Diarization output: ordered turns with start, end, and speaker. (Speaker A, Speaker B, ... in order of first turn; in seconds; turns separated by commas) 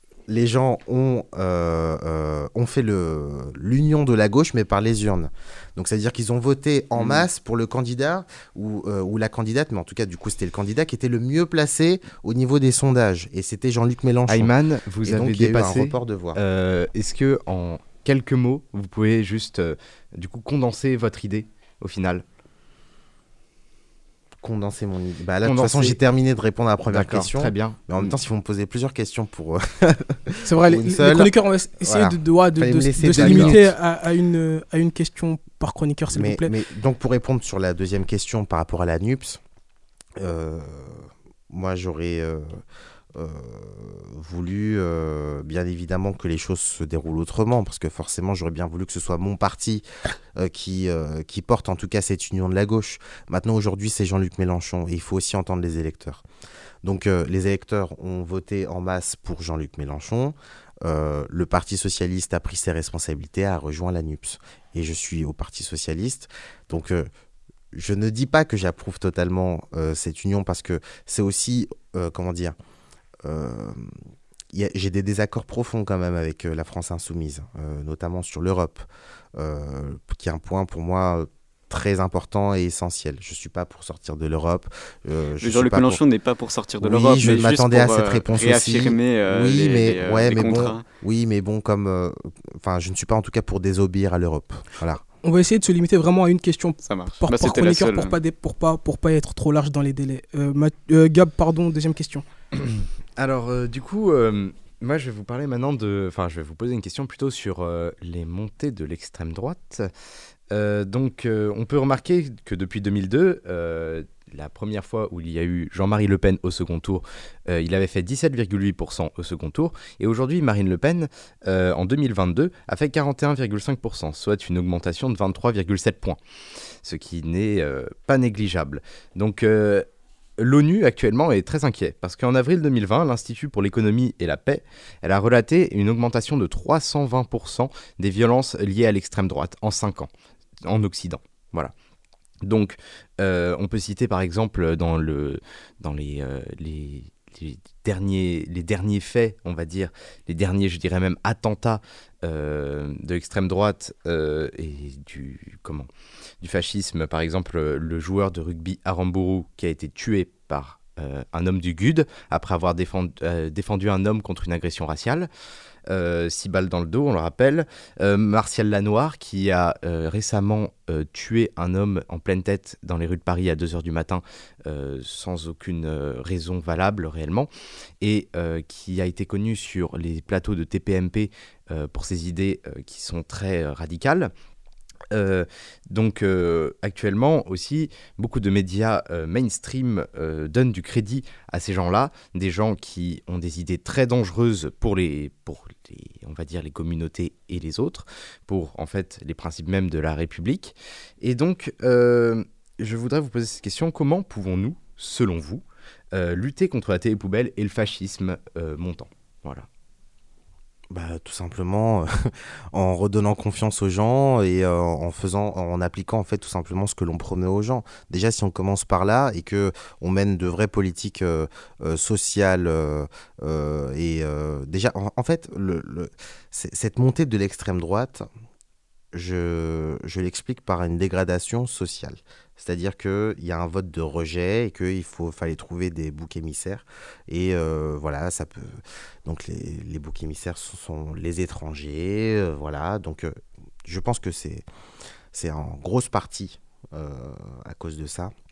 Speaker A: 0.3-16.4, Speaker B: 14.3-22.2, Speaker A: 24.4-33.7, Speaker B: 25.4-26.0, Speaker B: 26.9-28.1, Speaker C: 30.5-36.5, Speaker B: 33.1-33.6, Speaker A: 36.1-39.4, Speaker A: 40.2-42.6, Speaker A: 43.1-56.2, Speaker A: 56.8-67.1, Speaker A: 67.7-72.6, Speaker A: 73.2-74.0, Speaker A: 74.5-86.0, Speaker D: 85.4-90.8, Speaker A: 86.8-95.0, Speaker C: 95.2-102.2, Speaker D: 96.8-98.2, Speaker B: 102.6-109.9, Speaker B: 110.5-126.2, Speaker B: 126.8-129.9, Speaker B: 130.4-140.1, Speaker B: 140.6-141.7, Speaker B: 142.4-155.9, Speaker B: 156.4-165.3, Speaker B: 165.9-177.5, Speaker B: 178.0-184.3, Speaker B: 185.1-209.7, Speaker A: 210.9-228.3, Speaker A: 229.1-244.7, Speaker A: 245.3-248.3